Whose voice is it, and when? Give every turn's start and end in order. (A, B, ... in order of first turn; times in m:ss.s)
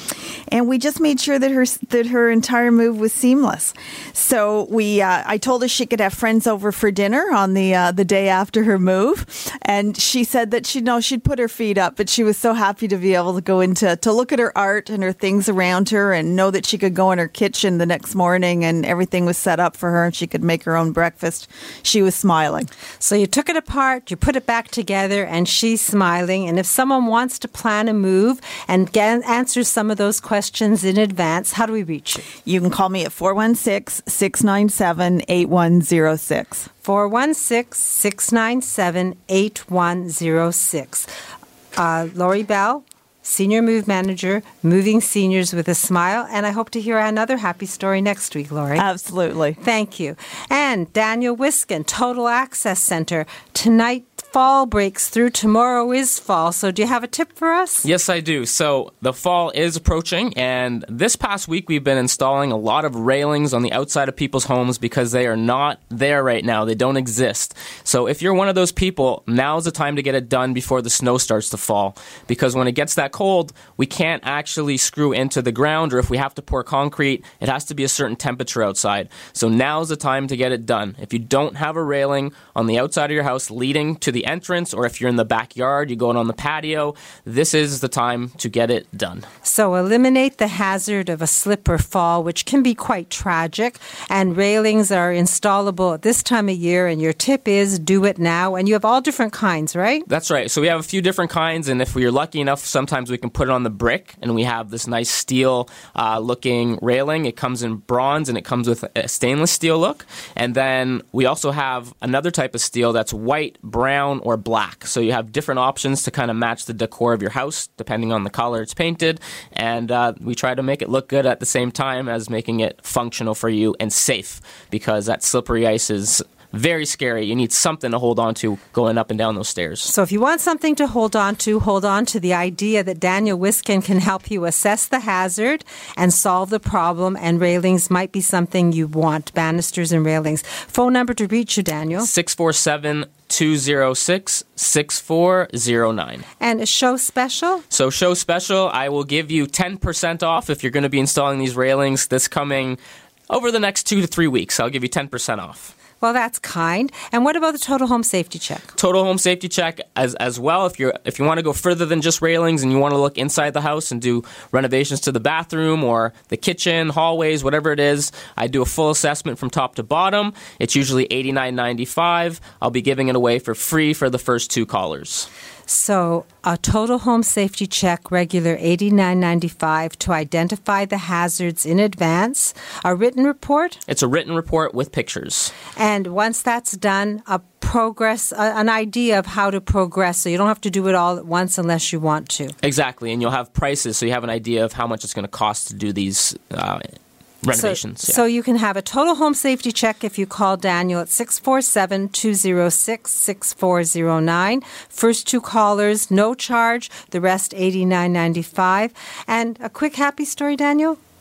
0:00.5-0:22.7 A
0:23.0-0:32.2 B
0:32.4-0:36.7 A
0:36.8-0:41.1 B
0:41.8-0:48.8 B
0:48.8-0:49.6 A
0:49.6-0:57.8 B
0:57.8-1:29.3 C
1:29.4-1:40.0 B
1:40.1-2:09.9 C
2:09.8-2:22.1 B
2:22.0-2:26.2 C
2:26.4-2:27.6 B
2:27.7-2:32.8 C
2:33.3-2:35.7 C
2:36.0-2:38.7 B
2:38.8-2:55.3 C
2:55.7-3:03.8 B
3:03.9-3:05.5 C
3:05.8-3:12.5 B
3:12.6-3:16.9 C
3:17.4-3:18.2 C
3:17.5-3:31.0 B